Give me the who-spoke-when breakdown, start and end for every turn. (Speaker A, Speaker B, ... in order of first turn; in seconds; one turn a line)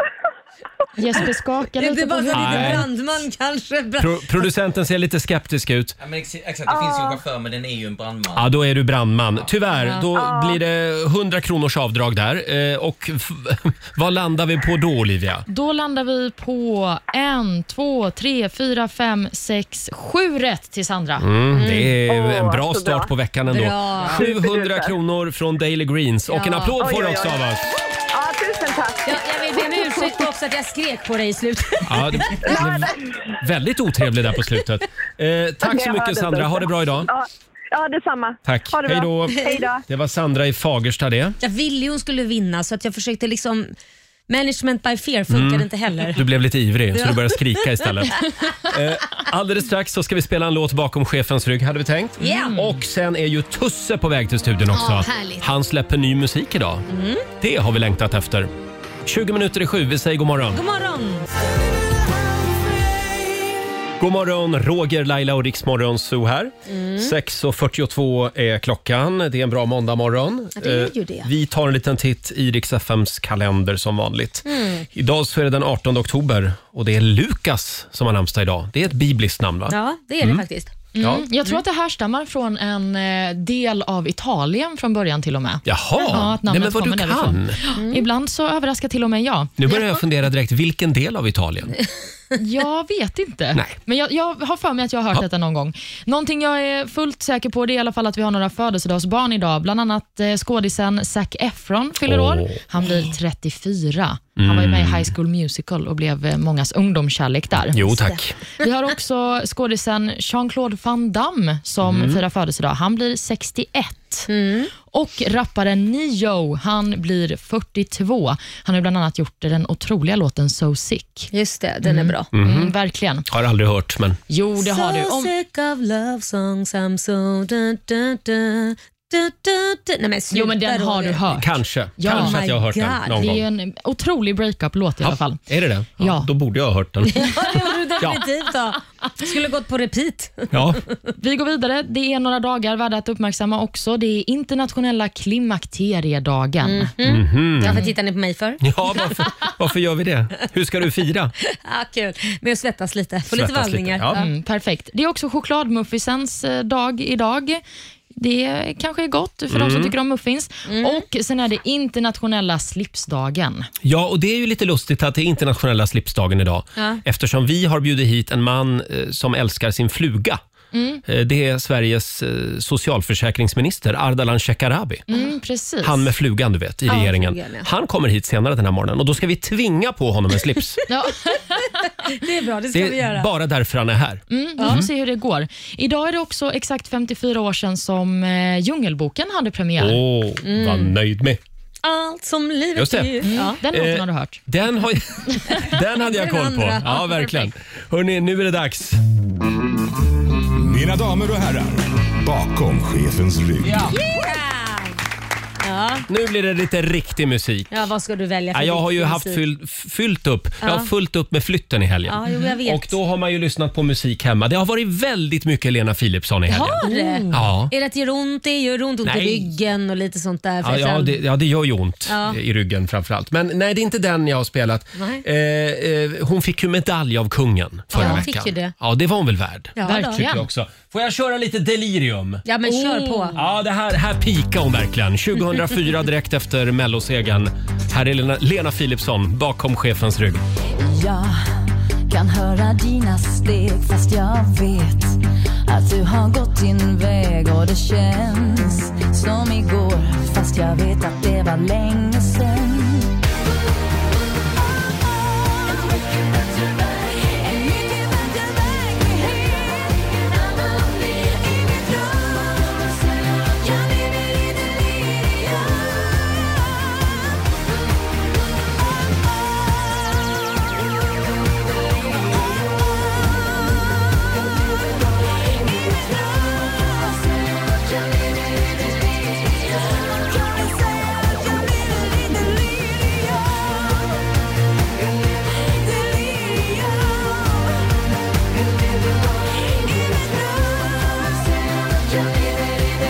Speaker A: 1.0-2.8
Speaker B: 1.8-4.5
Speaker C: 2.3-2.9
Speaker C: 4.0-6.0
Speaker D: 6.0-8.5
Speaker E: 6.7-7.2
Speaker C: 8.3-15.4
Speaker E: 10.1-10.6
Speaker A: 15.5-21.2
Speaker C: 21.2-27.7
Speaker B: 21.5-21.9
Speaker E: 22.1-23.1
Speaker B: 23.5-24.2
Speaker E: 24.1-24.9
Speaker B: 26.3-26.8
Speaker E: 26.8-27.4
Speaker E: 28.1-30.2
Speaker B: 29.1-32.5
Speaker C: 31.8-37.1
Speaker E: 32.4-33.0
Speaker E: 35.6-39.8
Speaker C: 38.4-41.4
Speaker B: 41.4-43.7
Speaker B: 44.3-46.2
Speaker C: 45.3-56.8
Speaker B: 46.9-48.2
Speaker B: 52.2-52.6
Speaker A: 52.3-52.6
Speaker B: 54.7-55.4
Speaker B: 56.9-57.2
Speaker C: 57.4-58.5
Speaker C: 59.0-60.6
Speaker B: 60.5-61.3
Speaker C: 64.0-80.4
Speaker B: 66.7-67.1
Speaker B: 70.6-71.3
Speaker B: 74.5-74.8
Speaker B: 79.7-80.7
Speaker A: 80.9-89.5
Speaker C: 81.0-81.2
Speaker C: 85.7-87.6
Speaker B: 87.7-88.0
Speaker C: 89.6-91.8
Speaker A: 92.4-107.9
Speaker C: 102.0-103.0
Speaker C: 104.4-105.1
Speaker C: 107.6-108.4
Speaker A: 108.6-114.3
Speaker C: 111.8-112.2
Speaker B: 114.3-114.7
Speaker A: 114.8-121.3
Speaker B: 121.3-122.3
Speaker A: 121.8-123.2
Speaker C: 122.3-122.7
Speaker C: 123.3-124.2
Speaker A: 124.3-125.3
Speaker B: 124.6-131.2
Speaker A: 130.3-131.5
Speaker C: 131.3-133.4
Speaker A: 132.0-132.3
Speaker B: 132.0-133.3
Speaker A: 133.2-135.4
Speaker C: 135.0-137.4
Speaker A: 136.0-136.3
Speaker B: 137.1-140.8
Speaker C: 138.0-138.2
Speaker C: 140.5-140.8
Speaker A: 141.2-146.9
Speaker B: 146.6-149.2
Speaker C: 147.0-147.8
Speaker C: 148.6-151.3
Speaker B: 151.5-154.3
Speaker C: 153.3-154.2
Speaker A: 154.1-157.6
Speaker A: 158.1-163.7
Speaker C: 159.5-159.9
Speaker B: 160.7-161.0
Speaker C: 163.8-170.4
Speaker A: 170.7-171.0
Speaker C: 171.1-175.0
Speaker A: 175.1-176.1
Speaker C: 175.8-180.8
Speaker B: 176.9-177.7
Speaker A: 180.9-182.1
Speaker B: 182.0-183.3
Speaker C: 182.7-184.9
Speaker A: 184.3-190.0
Speaker C: 189.8-191.4
Speaker B: 190.4-190.9
Speaker B: 191.8-193.6
Speaker C: 192.7-199.0
Speaker A: 193.3-194.4
Speaker B: 196.0-197.5
Speaker F: 200.5-203.9
Speaker C: 203.6-203.9
Speaker B: 203.9-205.0
Speaker B: 205.6-206.0
Speaker C: 206.1-207.8
Speaker B: 207.7-209.4
Speaker C: 208.5-217.7
Speaker B: 210.6-210.9
Speaker B: 212.1-213.0
Speaker B: 216.5-221.2
Speaker A: 216.8-217.5
Speaker C: 219.0-219.5
Speaker C: 220.6-232.4
Speaker B: 222.1-222.4
Speaker B: 224.9-225.2
Speaker A: 227.9-228.2
Speaker B: 227.9-228.7
Speaker B: 229.8-230.2
Speaker A: 229.8-230.4
Speaker B: 232.5-233.4
Speaker A: 232.7-233.4
Speaker C: 233.3-240.4
Speaker G: 240.8-253.2
Speaker G: 255.6-266.0
Speaker G: 280.9-283.2
Speaker G: 285.9-287.2
Speaker G: 289.6-290.9